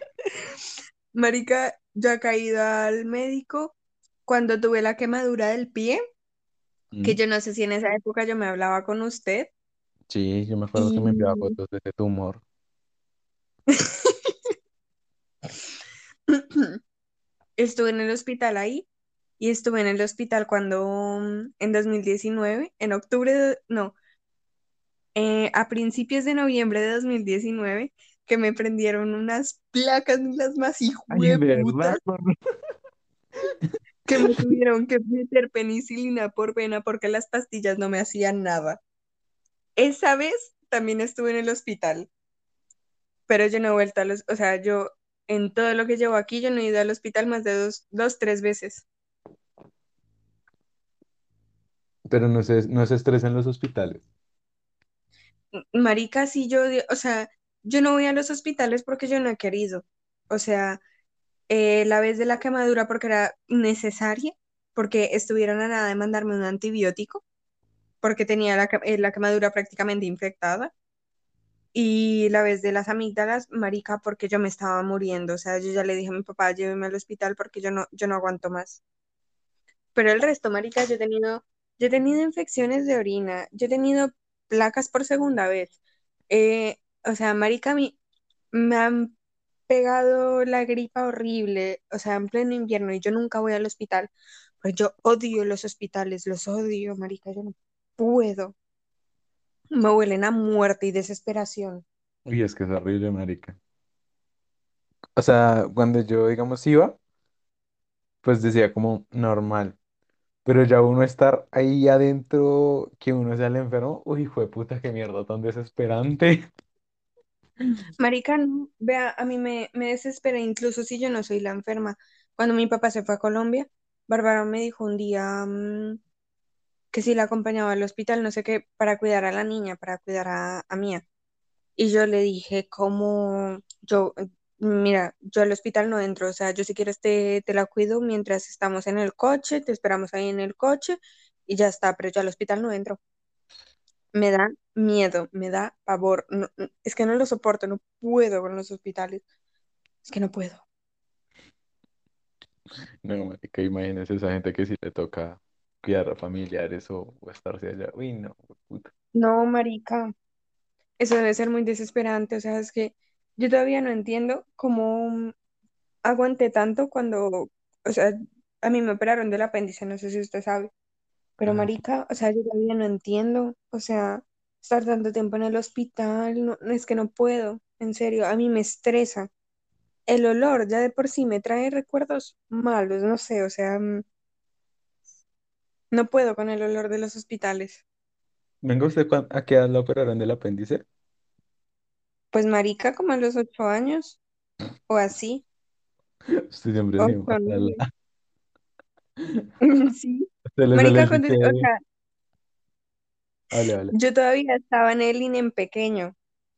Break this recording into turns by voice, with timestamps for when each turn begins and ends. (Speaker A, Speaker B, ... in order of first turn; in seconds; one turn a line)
Speaker A: 1.1-3.7
Speaker A: 4.2-6.0
Speaker B: 6.9-7.2
Speaker A: 7.0-9.5
Speaker B: 10.1-12.4
Speaker A: 10.8-11.5
Speaker A: 13.7-14.1
Speaker A: 16.3-16.8
Speaker A: 17.6-18.9
Speaker A: 19.4-23.9
Speaker A: 25.1-32.0
Speaker B: 31.1-32.3
Speaker A: 34.0-38.8
Speaker A: 39.8-42.1
Speaker A: 43.3-48.9
Speaker B: 52.1-54.0
Speaker A: 55.5-60.8
Speaker A: 61.5-67.2
Speaker A: 68.0-70.7
Speaker A: 71.7-78.8
Speaker A: 79.9-85.7
Speaker A: 86.3-88.0
Speaker A: 88.5-89.1
Speaker A: 89.7-98.5
Speaker A: 99.7-101.8
Speaker B: 102.2-103.6
Speaker B: 105.2-107.0
Speaker B: 108.2-109.8
Speaker B: 110.4-116.5
Speaker A: 118.0-126.0
Speaker A: 126.9-131.0
Speaker A: 131.8-143.0
Speaker A: 144.1-149.2
Speaker A: 150.0-150.6
Speaker B: 153.0-158.9
Speaker A: 159.1-160.1
Speaker A: 161.0-165.3
Speaker A: 166.0-170.7
Speaker A: 171.4-179.3
Speaker A: 180.1-184.0
Speaker A: 185.9-187.8
Speaker B: 188.6-190.8
Speaker A: 192.3-194.2
Speaker A: 194.9-195.4
Speaker B: 196.5-197.8
Speaker A: 197.0-197.8
Speaker A: 199.6-201.8
Speaker B: 200.5-201.7
Speaker B: 203.5-203.9
Speaker A: 203.9-206.1